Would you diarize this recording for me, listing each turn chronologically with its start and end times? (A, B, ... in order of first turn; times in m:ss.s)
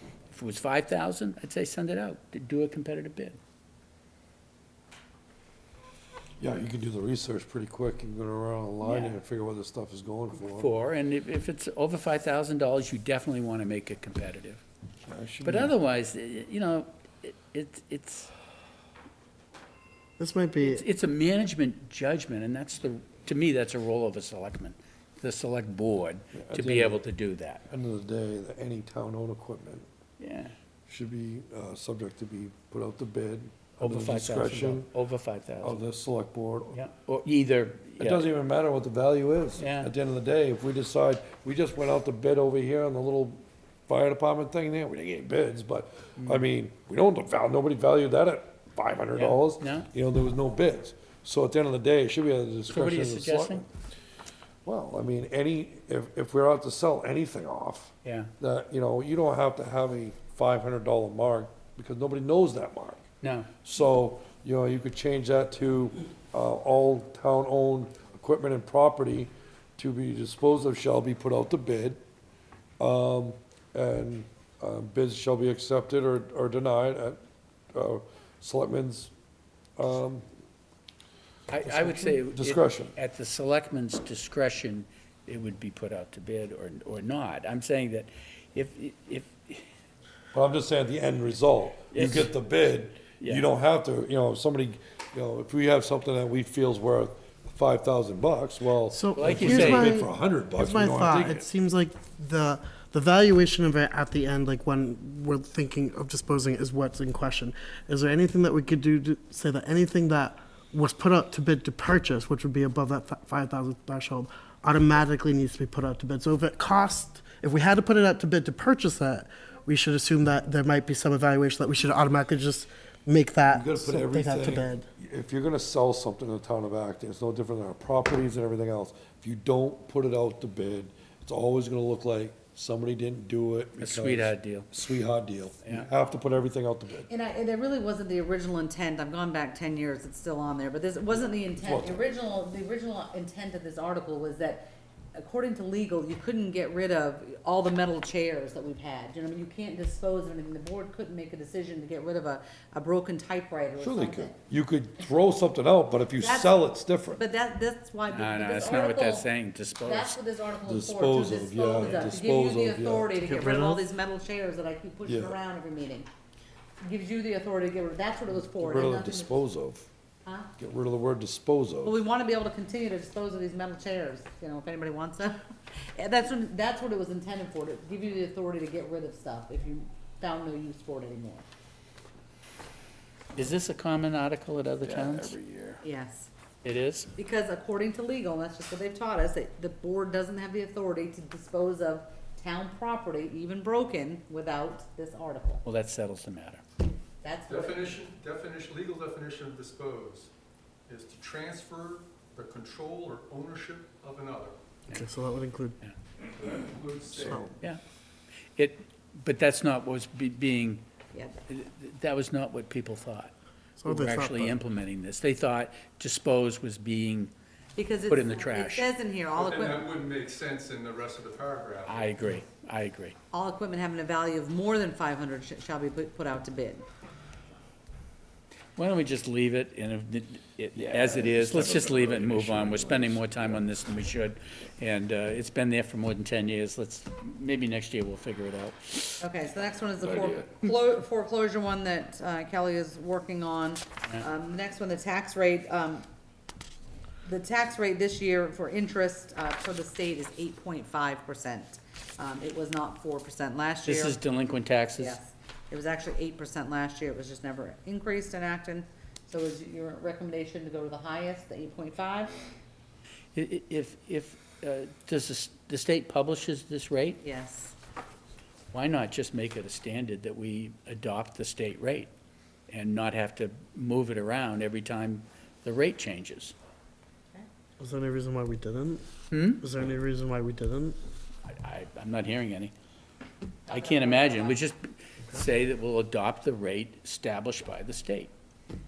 0:00.3-0:03.4 A
0:06.4-0:10.7 B
0:08.8-0:09.1 A
0:10.5-0:14.6 A
0:15.0-0:15.7 B
0:15.4-0:18.3 A
0:20.2-0:20.8 C
0:20.6-0:27.6 A
0:26.3-0:27.0 B
0:27.7-0:29.9 B
0:30.2-0:30.5 A
0:30.9-0:34.9 B
0:33.8-0:35.8 A
0:35.6-0:36.8 B
0:36.7-0:38.2 A
0:38.0-0:53.7 B
0:39.6-0:39.9 A
0:46.2-0:46.4 A
0:49.2-0:49.9 A
0:52.7-0:53.6 A
0:54.6-1:03.0 B
0:58.0-0:58.3 A
1:03.2-1:03.5 A
1:03.6-1:12.0 B
1:12.8-1:17.2 B
1:17.7-1:19.1 B
1:19.8-1:20.2 B
1:21.5-1:29.6 A
1:21.6-1:23.0 B
1:30.3-1:41.5 B
1:31.9-1:32.3 A
1:38.9-2:04.8 C
1:39.1-1:40.0 A
2:03.5-2:17.1 B
2:13.8-2:14.7 A
2:17.1-2:34.3 D
2:21.4-2:22.1 B
2:33.8-2:37.2 B
2:36.2-2:36.6 D
2:37.2-2:39.3 D
2:38.1-2:40.2 A
2:39.8-2:46.1 D
2:40.7-2:43.2 B
2:43.3-2:43.8 C
2:45.1-2:45.4 B
2:46.8-2:49.3 D
2:48.6-2:49.9 B
2:50.2-2:50.5 D
2:50.6-2:51.9 B
2:51.8-2:55.4 D
2:55.9-3:01.4 D
3:03.3-3:05.4 A
3:04.8-3:05.8 B
3:05.8-3:06.3 D
3:06.6-3:07.1 A
3:07.2-3:15.6 D
3:15.6-3:16.6 A
3:17.2-3:18.0 D
3:17.5-3:20.3 E
3:20.9-3:24.6 E
3:24.9-3:25.8 C
3:26.3-3:27.5 E
3:27.2-3:27.5 C
3:28.6-3:30.8 A
3:31.5-3:33.3 A
3:33.8-3:34.6 C
3:33.8-3:37.3 A
3:37.8-3:39.9 D
3:38.1-3:38.9 A
3:39.3-3:42.1 E
3:41.9-3:43.2 A
3:43.3-3:46.8 D
3:48.8-3:59.2 A
3:50.8-3:53.6 B
3:59.2-4:06.1 D
4:00.0-4:00.5 B
4:07.2-4:14.2 D
4:13.9-4:15.2 A
4:15.0-4:22.4 D
4:23.3-4:27.2 A
4:27.2-4:27.8 D
4:28.7-4:32.1 A
4:32.7-4:36.6 A
4:37.8-4:41.0 C
4:39.3-4:39.6 A
4:41.5-4:42.7 A
4:43.7-4:44.6 D
4:43.7-4:48.3 A